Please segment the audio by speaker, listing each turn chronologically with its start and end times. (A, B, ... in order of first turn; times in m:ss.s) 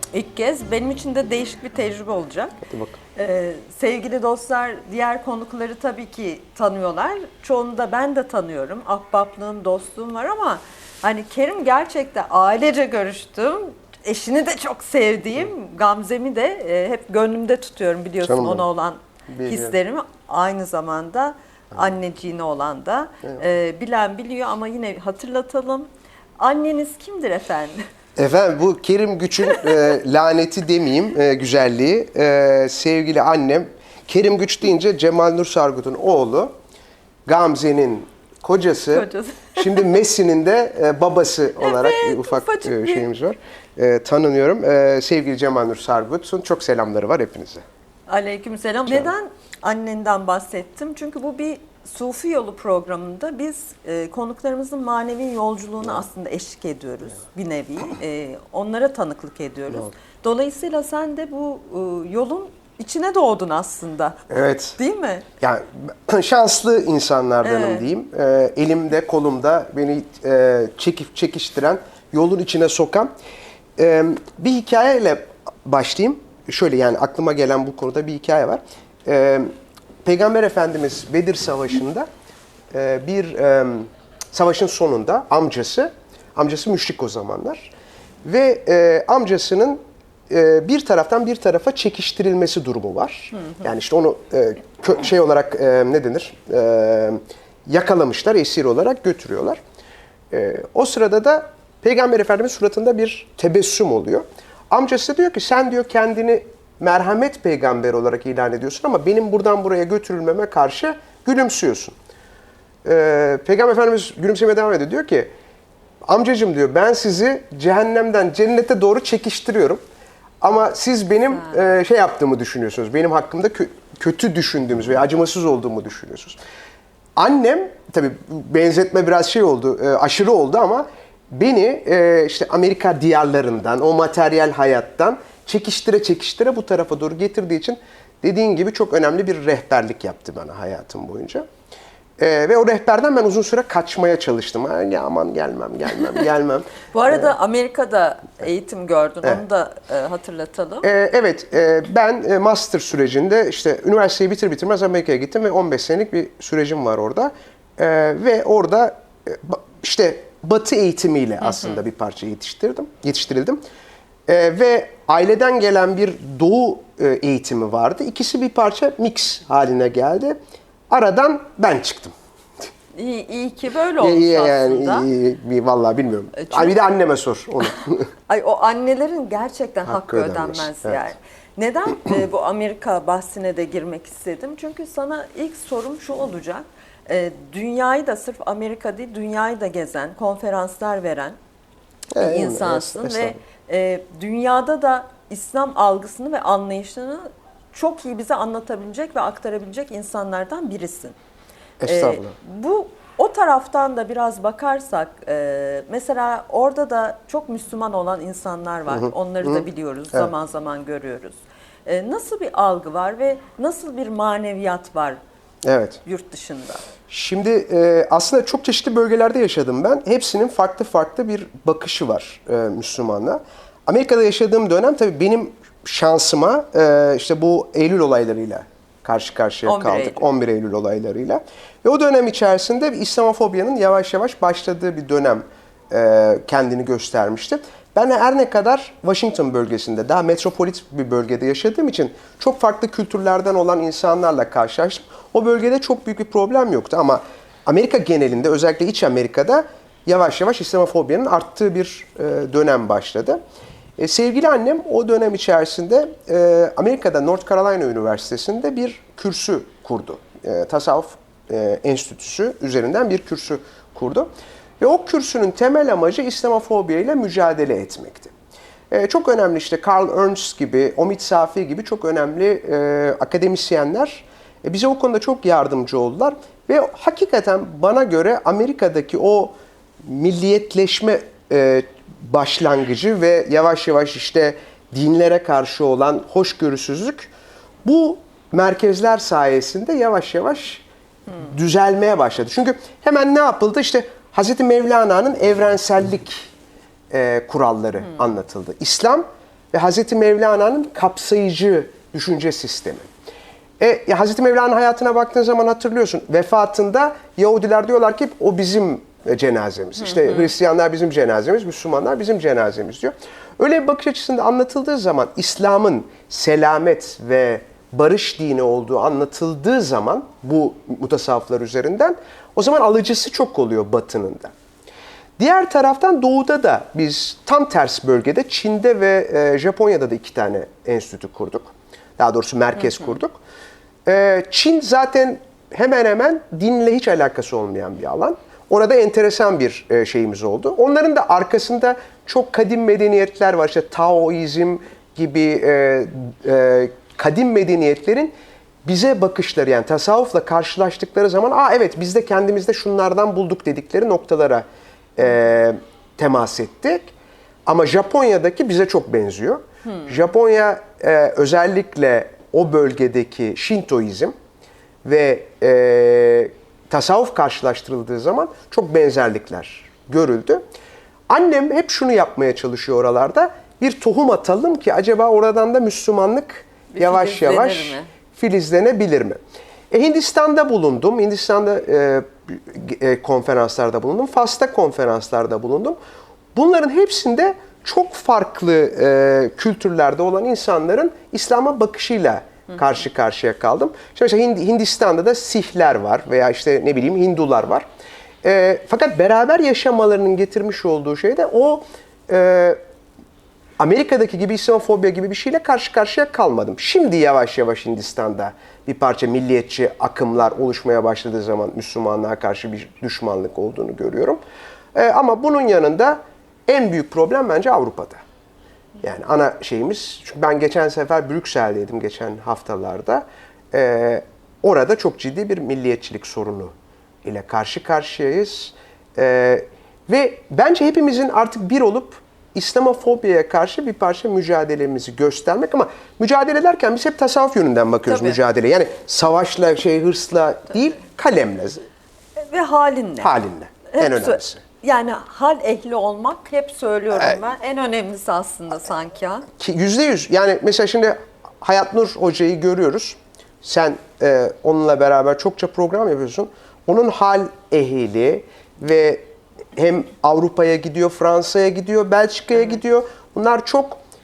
0:00.1-0:02.6 A
0:02.6-0:03.0 B
0:03.1-0:27.8 A
0:18.2-0:18.6 B
0:19.3-0:19.8 B
0:28.2-0:36.5 B
0:37.2-0:47.6 B
0:38.9-0:39.8 A
0:41.6-0:43.1 A
0:48.1-1:04.2 A
1:04.3-1:04.8 B
1:04.8-1:05.2 A
1:05.4-1:13.1 B
1:07.4-1:07.8 A
1:13.8-1:19.5 B
1:20.0-1:22.1 B
1:22.7-1:27.7 B
1:28.2-1:39.6 B
1:40.3-1:52.0 B
1:52.8-1:55.3 B
1:56.1-1:59.8 B
2:00.4-2:06.4 B
2:07.2-2:21.4 B
2:22.2-2:27.3 B
2:26.9-2:30.9 A
2:30.8-2:43.6 B
2:44.3-2:50.4 B
2:50.9-2:52.1 B
2:52.9-2:55.1 A
2:54.0-2:58.1 B
2:56.4-2:56.8 A
2:58.3-3:11.4 A
2:59.8-3:01.1 B
3:12.1-3:13.4 B
3:12.2-3:21.2 A
3:21.8-3:22.3 B
3:21.8-3:35.2 A
3:28.9-3:30.3 B
3:35.6-3:36.0 B
3:36.0-3:36.8 A
3:37.1-4:13.4 B
3:49.6-3:50.2 A
4:14.0-4:24.3 B
4:24.8-4:28.3 B
4:28.9-4:47.3 B
4:47.8-4:56.5 B
4:57.1-5:03.1 B
5:03.8-5:24.5 B
5:25.4-5:33.4 B
5:34.0-5:48.3 B
5:48.8-5:54.6 B
5:55.2-5:57.1 B
5:57.6-6:04.3 B
6:05.0-6:10.6 B
6:11.3-6:19.4 B
6:16.9-6:18.1 A
6:19.9-6:26.0 B
6:26.5-6:37.8 B
6:38.4-6:42.8 B
6:43.8-6:54.4 B
6:54.9-6:58.2 B
6:59.0-7:06.7 B
7:07.2-7:21.8 B
7:18.1-7:18.4 A
7:22.4-7:23.3 A
7:23.2-7:24.6 B
7:23.9-7:29.5 A
7:29.6-7:39.2 B
7:39.8-7:44.0 B